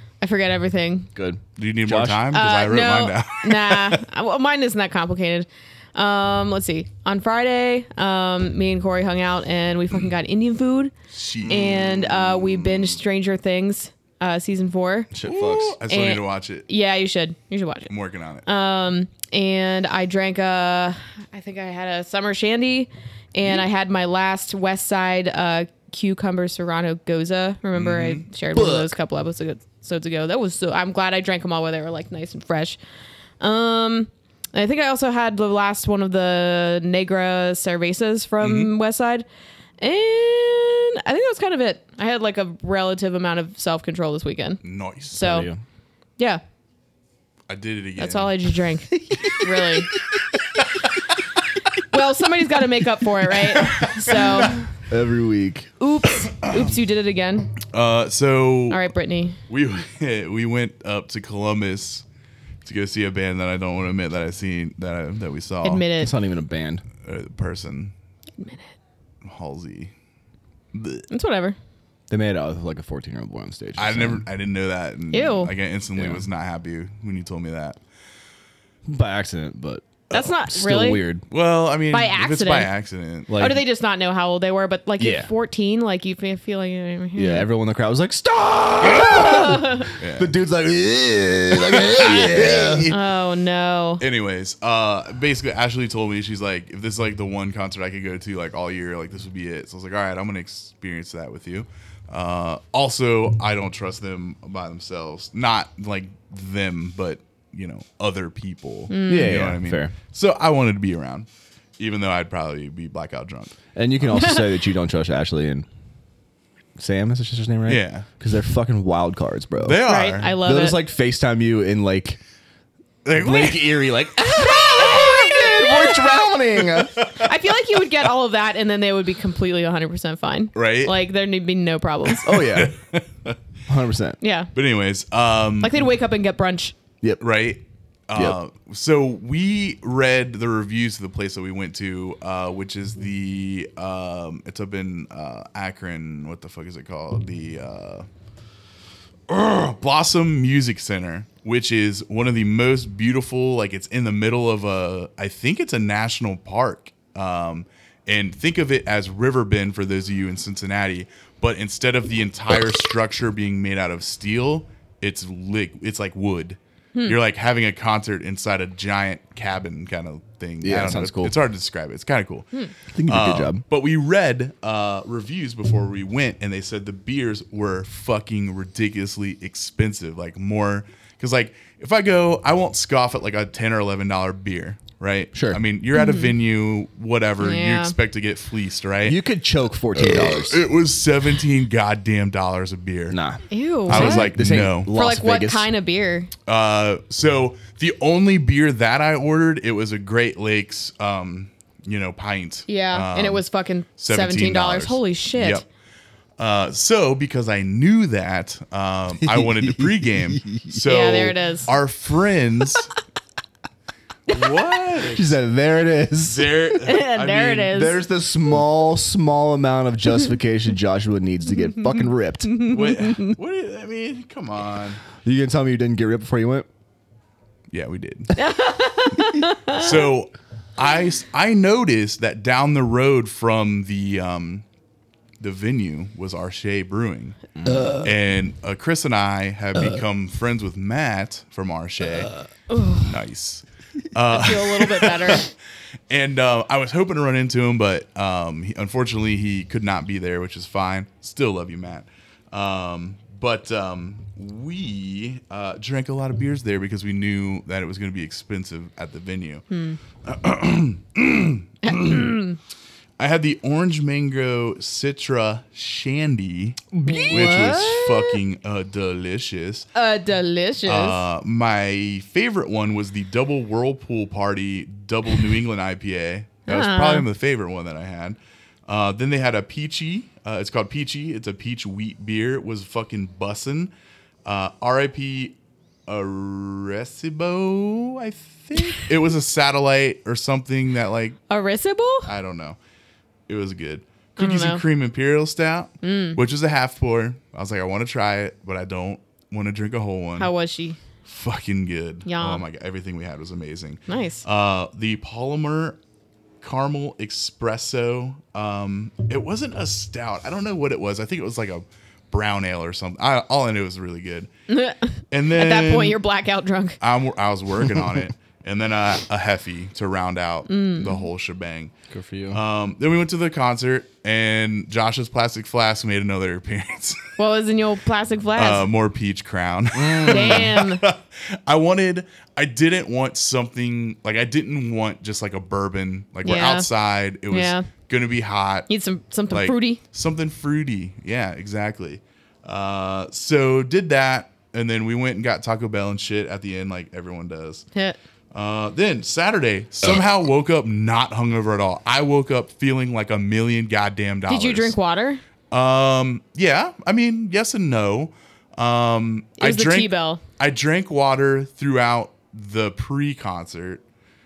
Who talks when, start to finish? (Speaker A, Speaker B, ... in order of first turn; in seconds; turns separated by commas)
Speaker A: 0.2-1.1, Speaker B: 1.1-2.2, Speaker C: 1.6-4.0, Speaker A: 2.3-10.9, Speaker C: 11.1-13.0, Speaker A: 11.4-15.1, Speaker B: 15.1-15.8, Speaker C: 15.2-16.7, Speaker A: 15.9-17.9, Speaker C: 17.9-18.4, Speaker A: 18.4-32.8, Speaker C: 27.7-28.2, Speaker B: 28.5-28.9, Speaker A: 33.4-39.2, Speaker C: 38.4-38.7, Speaker A: 39.8-45.5, Speaker C: 44.6-45.3, Speaker B: 45.2-45.6, Speaker C: 47.5-48.3, Speaker A: 48.0-49.9, Speaker A: 51.9-54.7, Speaker C: 53.5-54.5, Speaker B: 54.9-55.7, Speaker A: 55.8-57.6, Speaker C: 56.4-56.7, Speaker C: 57.6-58.8, Speaker A: 58.7-59.4, Speaker C: 59.5-62.0, Speaker C: 62.6-65.8, Speaker A: 65.6-66.1, Speaker B: 66.0-66.8, Speaker C: 67.0-67.9, Speaker A: 68.4-68.7, Speaker C: 69.2-69.9, Speaker C: 70.7-71.1, Speaker A: 71.1-71.5, Speaker B: 72.1-74.2, Speaker C: 73.8-77.8, Speaker A: 75.1-75.5, Speaker B: 75.9-76.2, Speaker B: 78.9-81.2, Speaker A: 80.1-81.0, Speaker C: 81.3-83.4, Speaker A: 81.9-82.7, Speaker B: 83.3-83.6, Speaker A: 83.4-87.5, Speaker B: 85.0-85.3, Speaker B: 87.1-92.9, Speaker A: 88.9-89.9, Speaker C: 90.0-90.3, Speaker C: 91.7-93.0, Speaker A: 92.8-94.0, Speaker C: 94.0-113.6, Speaker A: 108.9-109.5, Speaker B: 109.1-110.0, Speaker B: 113.7-115.7, Speaker B: 116.8-119.8, Speaker C: 117.7-118.1, Speaker C: 119.6-120.4, Speaker A: 119.8-120.8, Speaker B: 120.4-122.2, Speaker C: 123.0-123.9, Speaker B: 123.1-127.0, Speaker A: 124.3-132.4, Speaker C: 124.9-125.2, Speaker C: 127.0-127.3, Speaker C: 130.5-130.9, Speaker B: 132.2-132.7, Speaker C: 132.3-133.4, Speaker B: 133.7-134.2, Speaker A: 134.2-134.5, Speaker C: 134.5-135.8, Speaker A: 135.6-136.8, Speaker C: 137.2-148.1, Speaker C: 149.3-172.5, Speaker B: 170.6-171.3, Speaker B: 172.9-173.6, Speaker C: 173.1-189.2, Speaker B: 185.3-185.6, Speaker A: 185.9-186.3, Speaker A: 187.4-187.9, Speaker B: 189.0-190.6, Speaker C: 189.9-193.2, Speaker B: 193.1-195.7, Speaker A: 193.5-194.3, Speaker C: 193.9-194.9, Speaker A: 194.9-196.3, Speaker C: 196.4-203.4, Speaker A: 202.7-205.6, Speaker C: 204.0-205.6, Speaker C: 206.4-212.9, Speaker B: 209.2-210.7, Speaker A: 210.8-211.7, Speaker C: 214.3-215.4, Speaker B: 215.1-216.6, Speaker C: 216.2-217.9, Speaker A: 216.8-218.0, Speaker B: 217.7-222.6, Speaker A: 222.5-223.3, Speaker C: 222.7-225.0, Speaker B: 225.2-226.7, Speaker C: 227.7-228.3, Speaker A: 228.3-230.0, Speaker C: 229.7-234.6, Speaker C: 235.4-237.4, Speaker B: 237.6-238.0, Speaker C: 237.9-242.3, Speaker A: 242.7-243.1, Speaker C: 243.0-245.5, Speaker A: 244.3-245.5, Speaker C: 246.1-259.6, Speaker A: 259.7-260.0, Speaker C: 260.2-262.4, Speaker A: 261.8-262.6, Speaker C: 263.2-269.9, Speaker B: 267.0-267.6, Speaker A: 267.0-268.4, Speaker A: 269.9-271.2, Speaker C: 270.9-283.9, Speaker A: 276.7-277.2, Speaker C: 284.4-291.4, Speaker A: 291.5-292.3, Speaker C: 292.2-292.8, Speaker C: 293.5-300.5, Speaker A: 294.4-294.8, Speaker A: 296.0-296.4, Speaker A: 300.4-301.0, Speaker C: 301.2-306.0, Speaker A: 302.2-302.6, Speaker A: 304.1-304.4, Speaker C: 306.6-314.5, Speaker A: 314.7-317.0, Speaker C: 315.3-316.2, Speaker C: 317.0-321.9, Speaker A: 320.7-321.2, Speaker B: 322.1-322.6, Speaker C: 322.5-327.3, Speaker A: 327.4-328.9, Speaker C: 328.6-338.9, Speaker B: 329.9-330.7, Speaker A: 330.3-331.0, Speaker A: 336.4-336.9, Speaker A: 337.5-337.9, Speaker A: 338.9-340.0, Speaker C: 339.5-347.8, Speaker C: 348.5-354.9, Speaker A: 354.5-355.4, Speaker C: 355.7-364.0, Speaker A: 359.6-360.4